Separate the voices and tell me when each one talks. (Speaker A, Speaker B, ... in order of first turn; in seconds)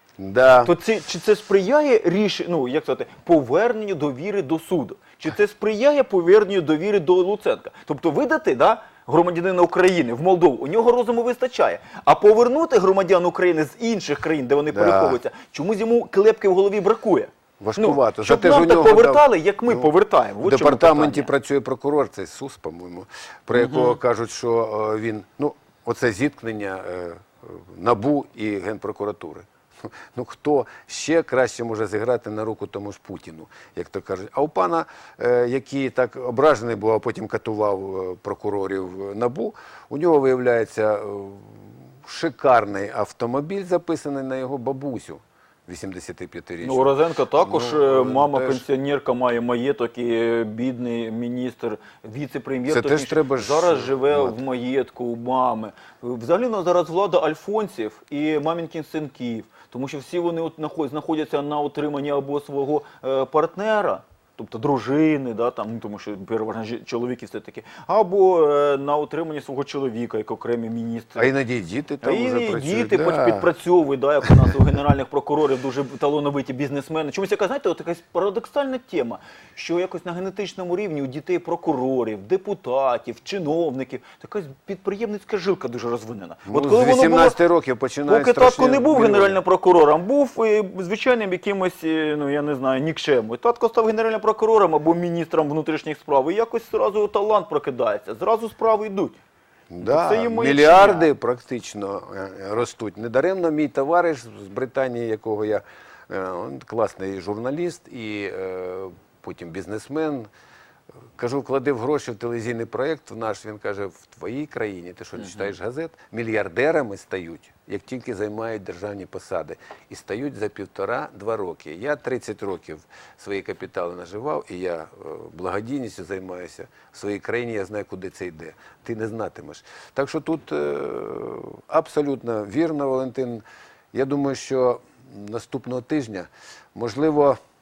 Speaker A: 0.2-0.7, 14.7-15.2, 17.6-19.9, 20.4-48.6, 52.7-54.4, 71.2-73.5, 86.5-89.4, 99.7-110.3, 111.2-137.4
Speaker B: 0.6-21.3, 23.6-24.0, 46.6-71.3, 72.0-87.4, 88.1-99.2, 99.8-101.1